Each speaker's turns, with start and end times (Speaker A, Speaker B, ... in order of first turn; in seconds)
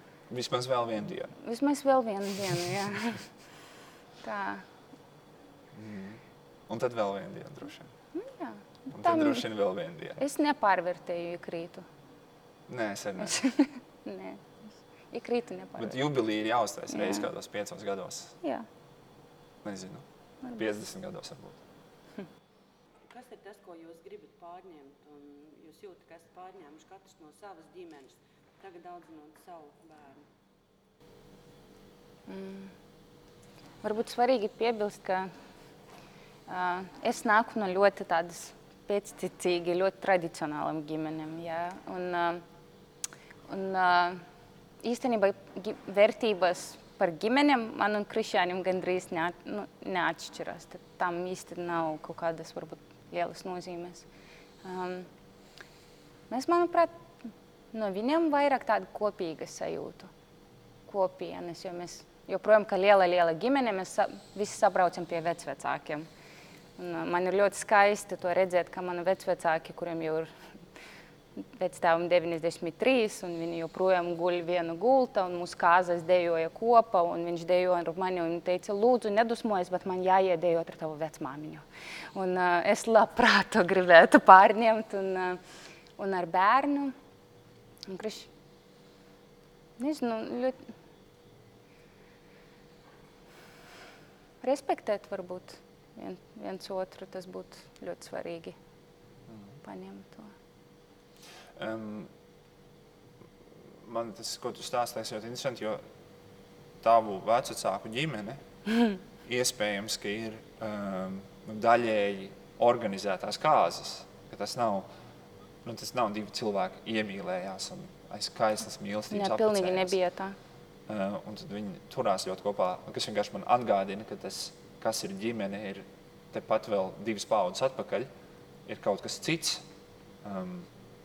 Speaker A: 0.3-1.3, 5.7-7.9, 8.9-10.2, 12.7-13.4, 15.8-18.4, 19.6-20.0, 20.5-21.6, 99.3-99.6, 101.5-102.1, 103.7-105.8, 106.8-108.4, 109.2-114.8, 115.6-120.0, 120.9-128.1, 128.7-129.6, 130.2-130.7
Speaker B: 1.4-3.2, 4.2-4.6, 8.1-9.4, 10.2-11.8, 13.2-14.4, 15.1-16.0, 16.9-17.3, 18.4-18.7, 32.3-32.7, 33.8-35.3, 36.5-42.4, 43.5-44.2, 44.8-54.0, 54.6-55.1, 56.3-60.1, 60.9-66.0, 66.8-70.3, 71.4-85.4, 86.0-86.9, 87.9-88.3, 89.8-90.7, 94.4-98.6, 99.6-100.3, 119.1-120.4
Speaker C: 23.1-30.2